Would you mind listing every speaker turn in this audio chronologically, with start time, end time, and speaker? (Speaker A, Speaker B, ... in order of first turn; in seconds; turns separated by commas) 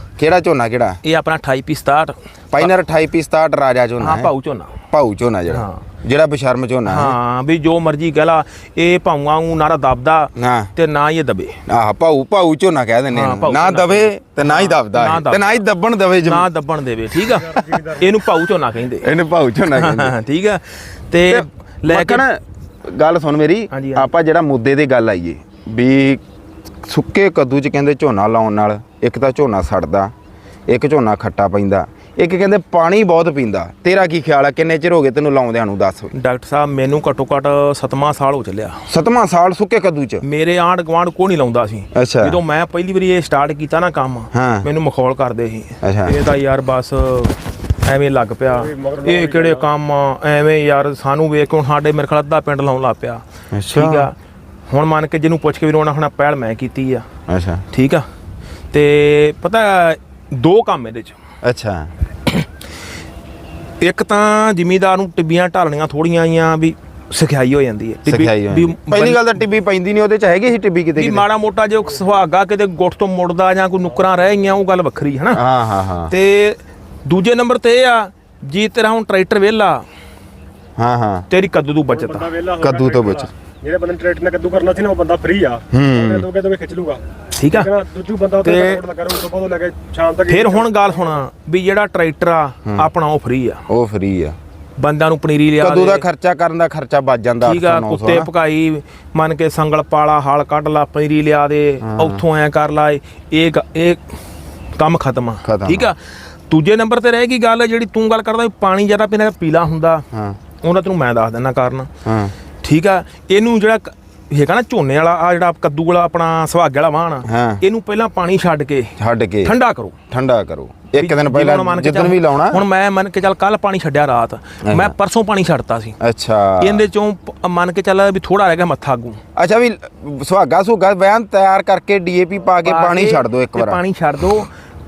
Speaker A: 0.2-1.0, Speaker B: 1.0-2.7, Speaker A: 2.5-4.3, Speaker B: 4.0-4.8, Speaker A: 4.9-7.2, Speaker B: 5.5-5.8, Speaker B: 6.9-11.6, Speaker A: 10.4-10.7, Speaker A: 11.7-16.5, Speaker B: 13.1-15.5, Speaker B: 16.2-19.1, Speaker C: 17.4-18.1, Speaker A: 19.0-20.1, Speaker B: 19.7-22.2, Speaker A: 21.3-26.2, Speaker B: 23.7-24.1, Speaker A: 26.8-30.1, Speaker A: 30.7-36.1, Speaker B: 36.1-38.8, Speaker A: 38.9-40.2, Speaker B: 40.2-54.1, Speaker A: 41.9-42.4, Speaker A: 44.3-44.7, Speaker A: 45.8-46.2, Speaker C: 48.5-49.7, Speaker A: 53.5-54.1, Speaker B: 54.7-57.0, Speaker A: 57.3-57.6, Speaker B: 57.7-58.1, Speaker B: 58.7-61.2, Speaker A: 61.4-61.9, Speaker B: 63.8-69.3, Speaker A: 68.1-71.3, Speaker B: 71.0-75.4, Speaker A: 75.3-76.1, Speaker B: 76.1-79.8, Speaker A: 80.8-81.3, Speaker B: 81.3-82.3, Speaker C: 81.9-87.0, Speaker A: 82.6-83.3, Speaker A: 85.7-86.3, Speaker B: 87.4-87.7, Speaker C: 87.5-91.2, Speaker B: 88.4-88.8, Speaker B: 90.3-93.6, Speaker A: 93.7-94.4, Speaker B: 94.8-96.0, Speaker A: 95.6-98.3, Speaker B: 97.4-104.0, Speaker A: 101.8-102.2, Speaker B: 104.8-110.0, Speaker A: 105.4-105.9, Speaker B: 110.6-111.9, Speaker A: 112.0-112.3, Speaker B: 112.6-120.0, Speaker A: 117.3-117.6, Speaker A: 119.0-119.5, Speaker A: 120.1-122.6, Speaker B: 121.0-126.0, Speaker A: 124.6-124.9, Speaker A: 126.0-126.8, Speaker B: 126.6-129.2, Speaker A: 129.4-133.8, Speaker B: 132.6-134.5